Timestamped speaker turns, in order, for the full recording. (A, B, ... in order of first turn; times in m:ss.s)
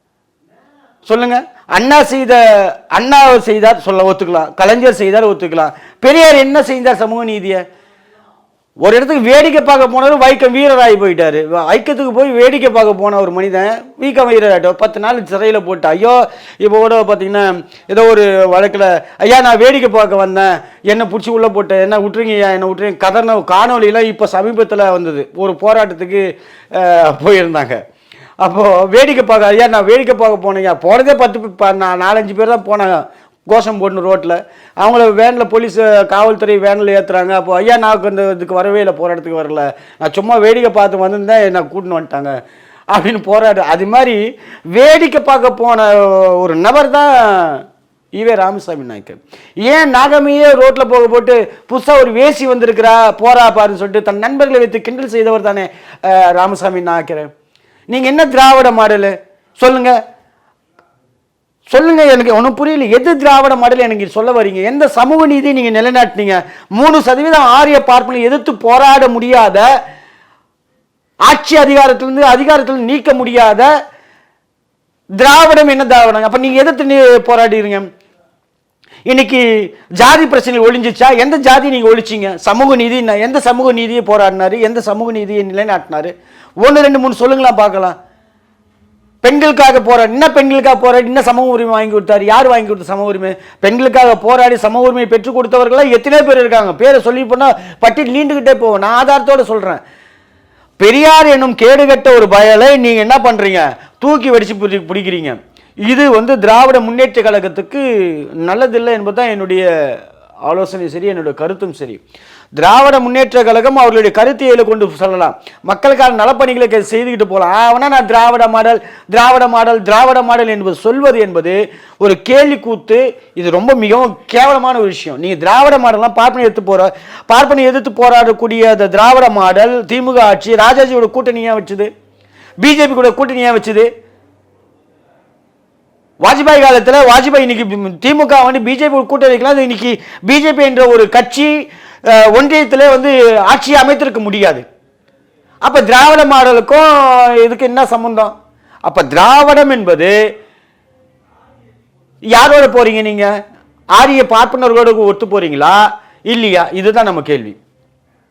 0:01.1-0:07.6 A
0:08.8-0:27.8 A
0:28.4-0:42.4 A
0:42.9-0:44.2 A
0:44.7-0:47.6 A
0:48.2-0:57.3 A
0:57.9-1:00.0 A
1:01.7-1:09.7 A
1:11.2-1:13.7 A
1:15.2-1:17.9 A
1:19.1-1:28.0 A
1:29.2-1:39.8 A
1:40.8-1:49.7 A
1:50.4-1:52.0 A
1:52.6-2:11.9 A
2:12.6-2:13.9 A
2:16.2-2:21.5 A
2:22.1-2:24.6 A
2:25.6-2:28.3 A
2:28.8-2:30.2 A
2:32.3-2:33.3 A
2:34.0-2:37.6 A